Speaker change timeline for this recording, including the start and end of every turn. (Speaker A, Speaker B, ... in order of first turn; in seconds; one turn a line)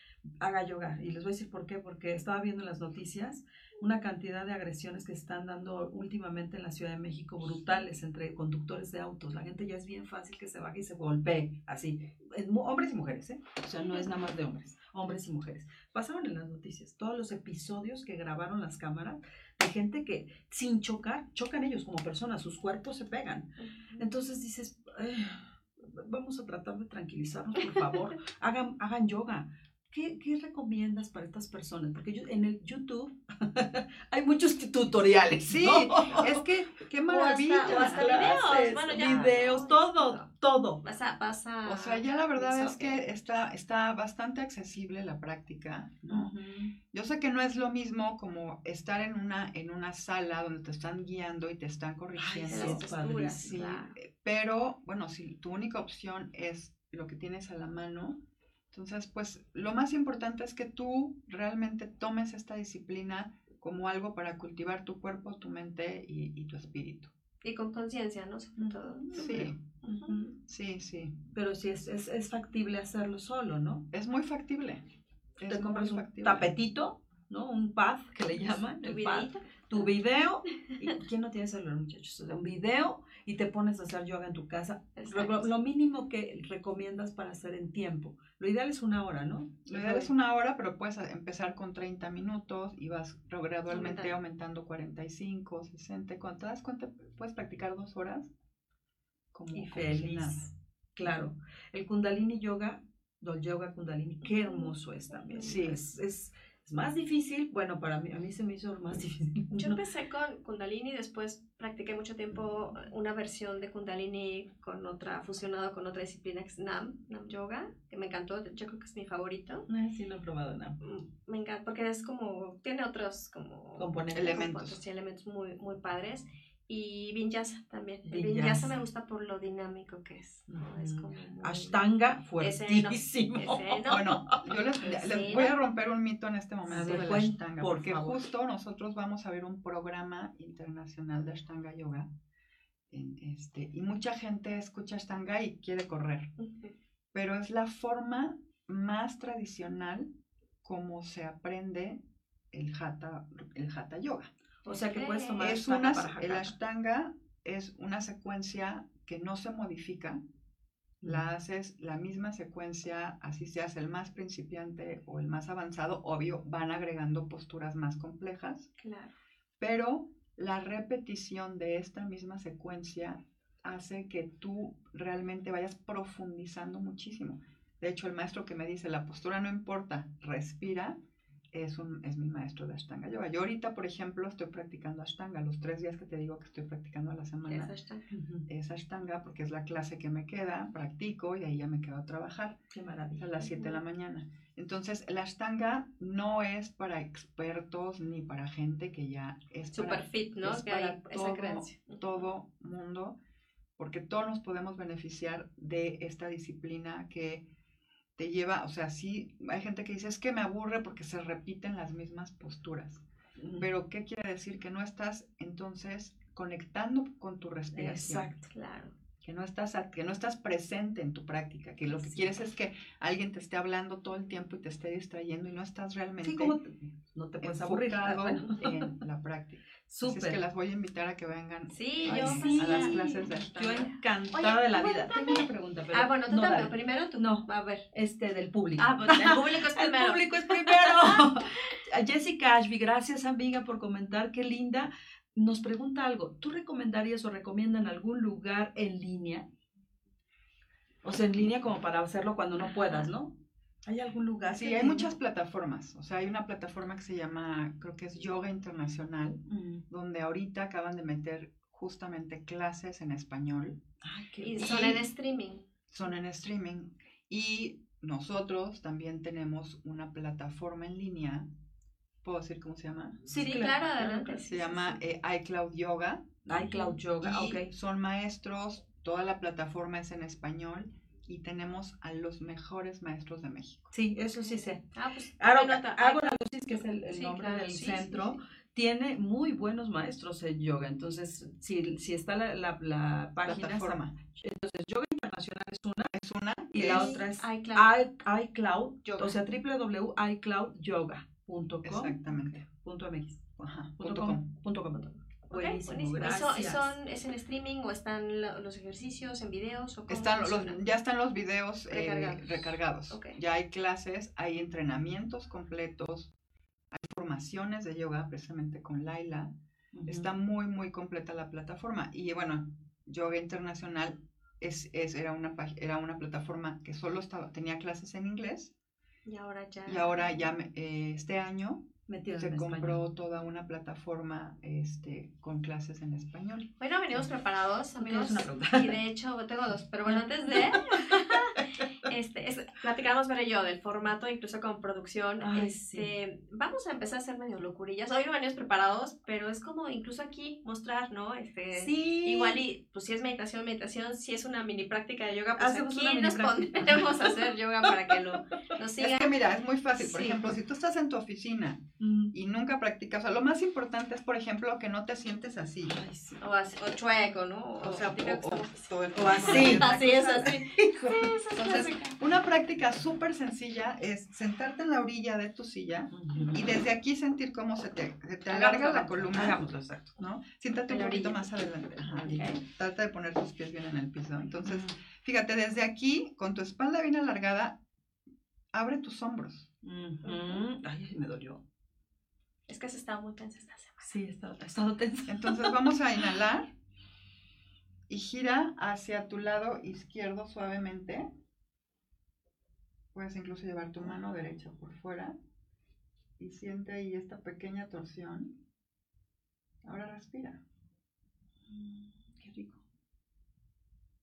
Speaker A: 0.4-36.4
Speaker B: 23.6-24.1
Speaker C: 35.5-38.0
Speaker B: 37.1-40.3
Speaker A: 37.6-40.8
Speaker B: 40.8-43.0
Speaker C: 41.6-46.3
Speaker A: 46.1-46.7
Speaker C: 46.9-52.8
Speaker A: 52.1-53.5
Speaker B: 52.5-54.0
Speaker C: 53.4-58.2
Speaker C: 58.7-67.1
Speaker B: 67.4-70.1
Speaker A: 68.6-70.4
Speaker C: 69.1-69.6
Speaker C: 70.5-71.2
Speaker A: 71.3-73.8
Speaker C: 73.9-74.8
Speaker C: 75.4-76.5
Speaker A: 75.5-90.1
Speaker B: 78.8-79.9
Speaker B: 85.0-85.5
Speaker C: 89.7-98.3
Speaker B: 93.7-94.1
Speaker C: 99.3-100.4
Speaker A: 99.5-109.8
Speaker B: 104.2-104.7
Speaker B: 105.3-105.5
Speaker C: 105.4-105.8
Speaker B: 109.5-119.7
Speaker A: 119.7-120.8
Speaker B: 120.8-131.8
Speaker A: 123.8-124.3
Speaker C: 124.1-124.8
Speaker A: 128.0-128.7
Speaker A: 130.5-134.4
Speaker B: 132.4-134.1
Speaker C: 133.9-142.1
Speaker B: 134.8-135.5
Speaker A: 136.7-138.2
Speaker C: 142.9-146.3
Speaker B: 146.4-146.7
Speaker C: 147.1-150.1
Speaker C: 150.6-152.0
Speaker C: 152.5-154.3
Speaker B: 154.7-155.4
Speaker A: 154.7-156.5
Speaker C: 155.4-160.2
Speaker C: 161.0-168.7
Speaker B: 168.8-169.1
Speaker C: 169.6-181.0
Speaker C: 181.5-187.7
Speaker B: 187.4-188.0
Speaker A: 188.1-188.5
Speaker C: 188.5-192.6
Speaker A: 192.7-193.4
Speaker C: 193.2-203.2
Speaker B: 193.4-193.8
Speaker B: 199.7-202.1
Speaker C: 203.8-207.4
Speaker C: 208.2-213.0
Speaker A: 213.4-213.7
Speaker C: 213.6-218.3
Speaker A: 217.7-218.5
Speaker B: 218.5-218.9
Speaker C: 219.2-226.6
Speaker A: 221.9-222.3
Speaker A: 226.2-228.9
Speaker C: 227.4-233.9
Speaker A: 229.9-230.4
Speaker B: 231.7-233.1
Speaker A: 232.0-249.4
Speaker B: 234.3-237.8
Speaker B: 238.8-241.5
Speaker A: 251.0-253.3
Speaker B: 252.6-253.1
Speaker A: 253.8-255.1
Speaker C: 254.5-263.8
Speaker A: 259.5-259.8
Speaker A: 264.0-264.8
Speaker B: 264.4-265.6
Speaker C: 264.6-265.0
Speaker C: 265.9-271.5
Speaker C: 272.2-273.2
Speaker A: 273.3-274.4
Speaker B: 273.4-275.0
Speaker C: 274.4-276.4
Speaker A: 276.5-277.7
Speaker B: 276.5-276.9
Speaker C: 277.2-283.9
Speaker A: 283.9-284.8
Speaker B: 284.9-286.4
Speaker A: 285.4-296.1
Speaker B: 287.1-288.4
Speaker C: 293.4-294.1
Speaker C: 296.1-297.2
Speaker A: 296.7-303.4
Speaker B: 296.8-297.9
Speaker C: 299.1-299.4
Speaker C: 301.8-302.6
Speaker C: 303.6-304.4
Speaker A: 304.0-306.9
Speaker B: 304.9-310.8
Speaker C: 310.1-316.3
Speaker B: 311.9-313.4
Speaker C: 316.9-319.5
Speaker A: 319.9-320.3
Speaker C: 320.1-328.7
Speaker B: 329.2-330.4
Speaker C: 329.9-336.7
Speaker A: 332.1-333.0
Speaker B: 336.8-359.3
Speaker A: 338.0-339.0
Speaker A: 340.1-341.6
Speaker A: 345.4-346.1
Speaker A: 351.7-352.6
Speaker A: 355.6-358.2
Speaker C: 359.0-366.0
Speaker B: 360.0-360.4
Speaker A: 362.0-362.3
Speaker A: 365.9-366.4
Speaker B: 366.4-372.1
Speaker C: 367.8-369.9
Speaker A: 369.1-371.4
Speaker C: 371.0-379.6
Speaker A: 376.1-376.6
Speaker A: 378.5-380.2
Speaker C: 380.2-387.8
Speaker B: 380.9-381.5
Speaker B: 382.2-382.6
Speaker A: 384.6-384.9
Speaker C: 388.7-389.7
Speaker A: 389.8-391.6
Speaker B: 390.2-390.6
Speaker B: 392.7-394.1
Speaker A: 394.0-395.8
Speaker C: 395.3-396.7
Speaker C: 398.1-401.3
Speaker C: 403.1-405.4
Speaker C: 406.4-408.6
Speaker C: 409.8-410.6
Speaker A: 411.7-412.8